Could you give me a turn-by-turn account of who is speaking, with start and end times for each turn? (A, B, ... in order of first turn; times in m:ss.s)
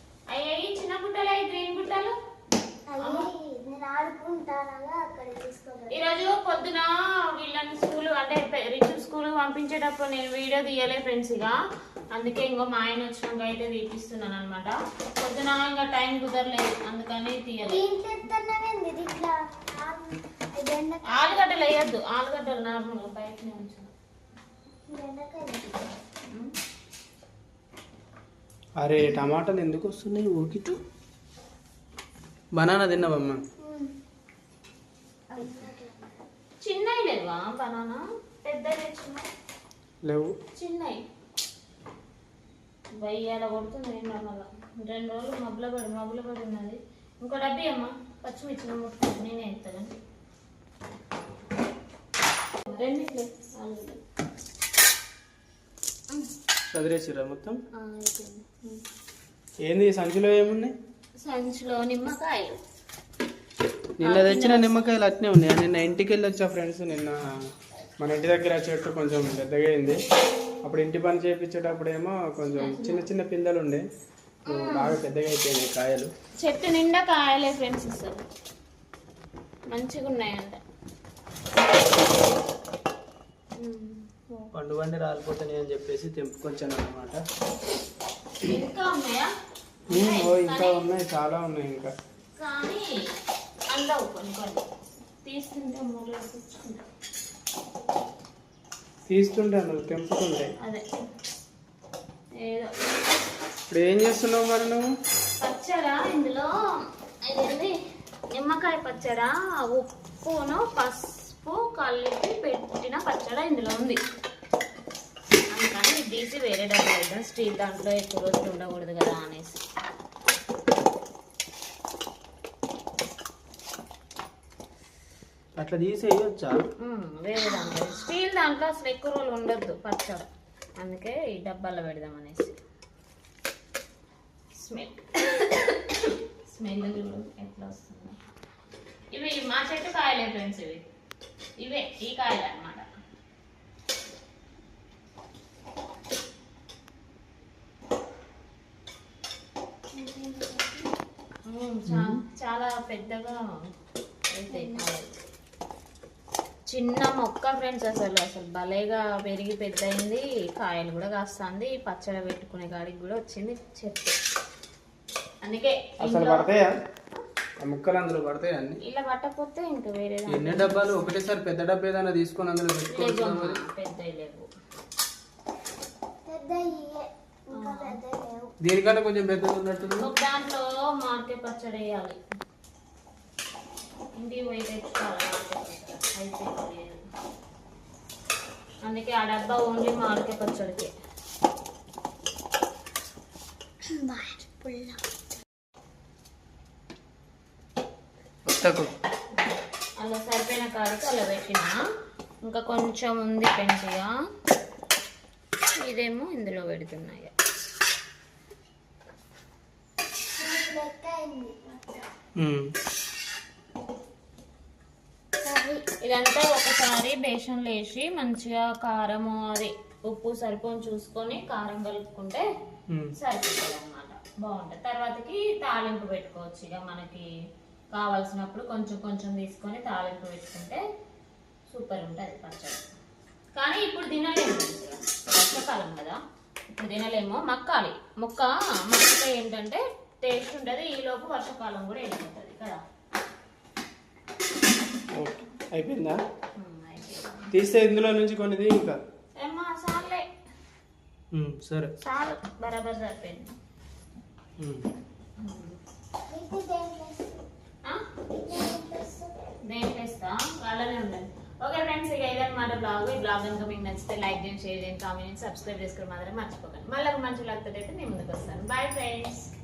0:00.3-0:02.1 A
0:02.9-0:06.0 B
0:03.0-0:03.3 A
0:05.9-0:11.6 A
0:12.1-0:17.8 A
0:17.7-0:21.5 B
0:21.1-0:23.9 A
0:24.9-0:25.9 B
0:28.8-0:30.8 C
0:32.5-0:33.4 C
0:33.6-0:33.9 B
0:35.3-0:36.2 B
0:36.6-0:39.3 A
0:40.0-0:40.4 C
0:40.6-0:41.0 A
0:43.0-0:50.0 A
0:52.7-0:54.0 A
0:56.7-0:57.6 C
0:57.8-0:58.8 A
0:59.6-1:00.7 C
1:01.2-1:02.6 A
1:04.0-1:07.2 C
1:04.0-1:04.9 A
1:08.0-1:10.0 C
1:10.6-1:13.8 C
1:12.6-1:13.0 A
1:14.5-1:15.0 A
1:14.5-1:16.1 C
1:16.4-1:18.2 A
1:19.7-1:20.6 A
1:23.6-1:24.5 A
1:24.6-1:27.2 C
1:28.4-1:29.3 A
1:29.9-1:30.8 A
1:29.9-1:31.9 C
1:32.4-1:33.0 A
1:33.7-1:34.7 A
1:35.2-1:36.8 A
1:39.1-1:40.5 C
1:42.4-1:43.0 A
1:43.7-1:44.9 C
1:45.4-1:46.5 A
1:47.2-1:47.7 A
1:48.3-1:54.0 A
1:55.5-1:59.6 A
2:05.6-2:06.6 C
2:06.8-2:10.2 A
2:10.8-2:12.6 A
2:14.6-2:18.2 A
2:19.1-2:20.8 A
2:21.6-2:22.8 A
2:29.9-2:30.9 B
2:31.5-2:33.6 A
2:31.9-2:32.2 C
2:34.3-2:35.2 A
2:34.5-2:34.8 B
2:36.7-2:44.2 A
2:45.4-2:46.5 A
2:46.0-2:46.7 C
2:47.6-2:48.8 C
2:48.8-2:51.1 A
2:50.3-2:53.6 C
2:52.9-2:54.5 A
2:56.3-2:58.5 B
2:57.5-2:58.0 A
2:58.6-3:00.1 C
3:00.0-3:02.2 A
3:04.2-3:07.0 A
3:08.8-3:10.9 A
3:13.9-3:15.0 B
3:18.5-3:18.9 C
3:19.3-3:21.8 A
3:22.5-3:24.1 A
3:25.8-3:27.3 A
3:30.4-3:32.1 B
3:32.4-3:32.7 C
3:35.4-3:35.8 B
3:36.0-3:42.4 A
3:43.2-3:47.3 A
3:47.9-3:50.8 A
3:51.7-3:52.8 A
3:53.6-3:56.2 A
3:56.7-4:02.8 A
4:05.2-4:06.2 C
4:06.6-4:07.5 A
4:07.5-4:09.0 C
4:09.4-4:10.2 A
4:11.3-4:11.9 C
4:12.0-4:13.5 A
4:14.6-4:14.8 C
4:15.4-4:15.8 A
4:16.3-4:17.4 B
4:18.4-4:19.3 B
4:19.7-4:29.5 A